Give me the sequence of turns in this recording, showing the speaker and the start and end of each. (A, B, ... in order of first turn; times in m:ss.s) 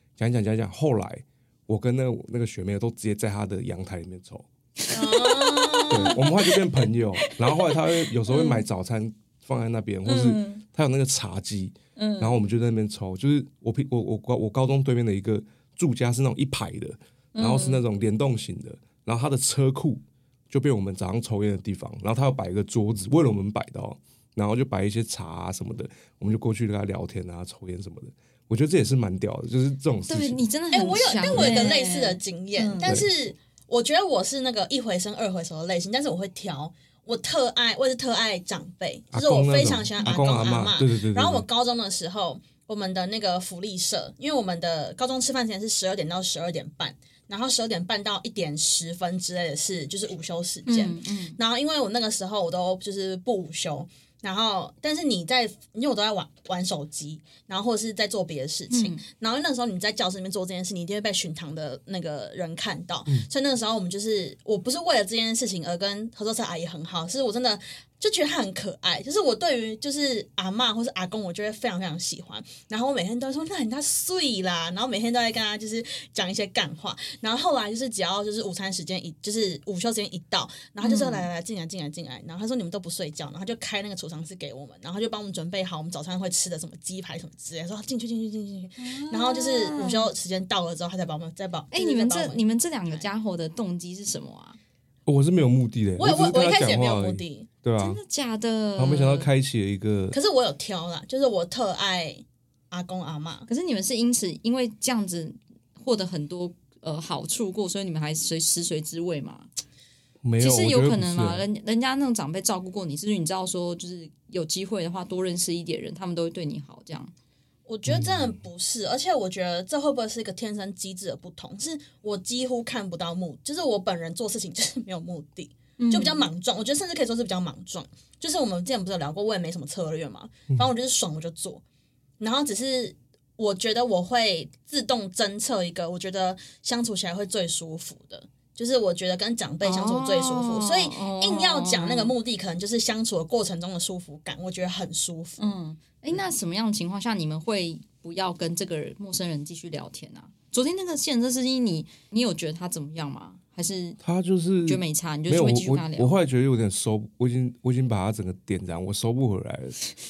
0:00.2-0:04.5 A
0:04.8-0:06.6 B
0:04.9-0:06.2 C
0:05.9-0:30.4 A
0:07.2-0:08.6 B
0:10.1-0:10.6 B
0:12.0-0:12.4 B
0:17.4-0:17.8 B
0:30.1-0:33.0 B
0:30.7-1:33.0 C
0:39.1-0:41.4 A
0:50.7-0:51.4 B
0:58.7-0:59.0 B
1:20.8-1:21.3 B
1:28.8-1:30.1 B
1:31.7-1:34.6 B
1:35.1-1:38.0 A
1:36.0-1:37.5 C
1:37.8-1:39.3 B
1:38.8-1:40.2 A
1:40.1-1:43.5 C
1:43.5-1:49.5 B
1:50.2-1:51.4 A
1:50.4-1:57.1 B
1:57.7-2:11.6 C
2:05.8-2:06.3 B
2:12.2-2:25.5 C
2:19.6-2:22.1 B
2:25.4-2:34.0 B
2:34.0-2:39.8 A
2:34.7-2:36.2 B